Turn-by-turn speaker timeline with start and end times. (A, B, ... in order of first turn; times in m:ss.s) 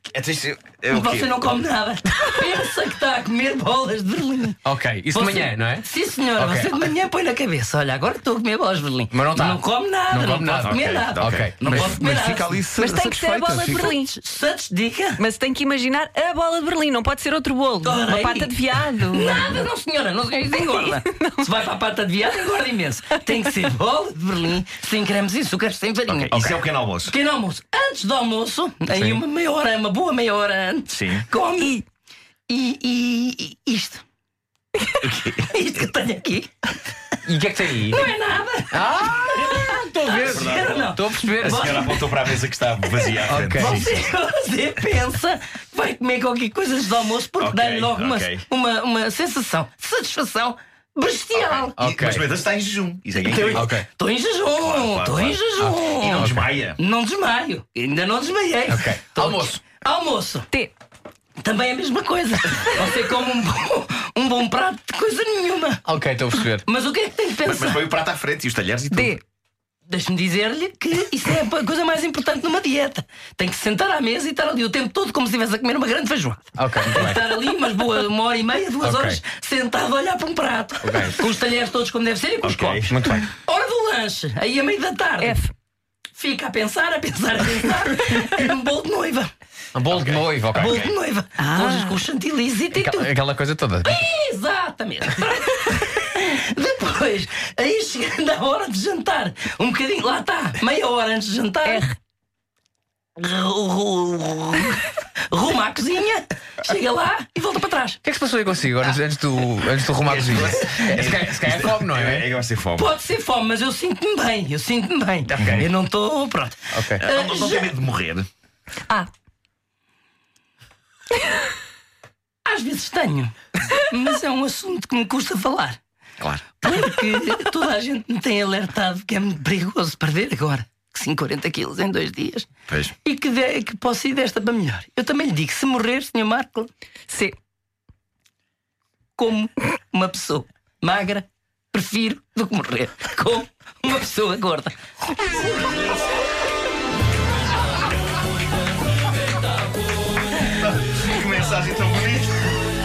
0:00.1-0:01.6 A
0:00.9-0:04.6 B
0:04.6-0:06.9 C
0:05.1-0:12.6 B
0:09.1-0:13.9 C
0:10.6-0:13.8 A
0:12.7-0:14.1 D
0:13.9-0:15.2 B
0:15.2-0:19.6 D
0:17.8-0:26.5 B
0:20.6-0:21.4 D
0:26.1-0:27.1 A
0:26.3-0:26.6 C
0:27.0-0:31.8 B
0:28.9-0:29.2 C
0:30.9-0:31.3 A
0:32.5-0:34.0 B
0:35.0-0:35.3 A
0:35.2-0:36.5 B
0:37.2-0:38.1 C
0:37.8-0:42.1 B
0:38.7-0:41.8 C
0:40.2-0:44.1 A
0:42.9-0:51.8 B
0:43.2-0:43.9 C
0:47.4-0:48.4 A
0:51.3-0:53.6 A
0:51.8-0:52.3 C
0:53.2-1:00.5 B
0:53.5-0:53.8 C
0:54.6-0:56.8 A
0:55.6-0:56.5 C
0:58.7-0:59.6 C
1:01.4-1:05.8 B
1:05.8-1:06.6 C
1:06.6-1:07.9 B
1:07.4-1:09.2 A
1:08.9-1:09.2 D
1:09.9-1:25.4 B
1:16.6-1:17.2 C
1:18.8-1:19.2 C
1:20.8-1:21.2 C
1:22.4-1:23.0 A
1:22.9-1:23.3 C
1:25.2-1:25.5 D
1:26.1-1:29.3 B
1:29.7-1:30.9 C
1:29.9-1:30.9 A
1:30.5-1:33.1 B
1:31.4-1:32.0 D
1:32.7-1:34.0 C
1:33.8-1:41.9 B
1:41.6-1:41.9 D
1:43.2-1:48.0 B
1:48.0-1:52.3 C
1:50.0-1:52.9 A
1:52.8-1:57.7 B
1:55.3-1:55.7 C
1:55.4-1:55.7 A
1:56.7-1:57.0 C
1:57.0-1:58.3 A
2:02.4-2:05.8 B
2:06.2-2:06.8 A
2:06.6-2:12.5 B
2:12.7-2:12.9 A
2:13.0-2:16.7 B
2:17.1-2:17.3 D
2:19.2-2:25.6 B
2:30.4-2:32.6 A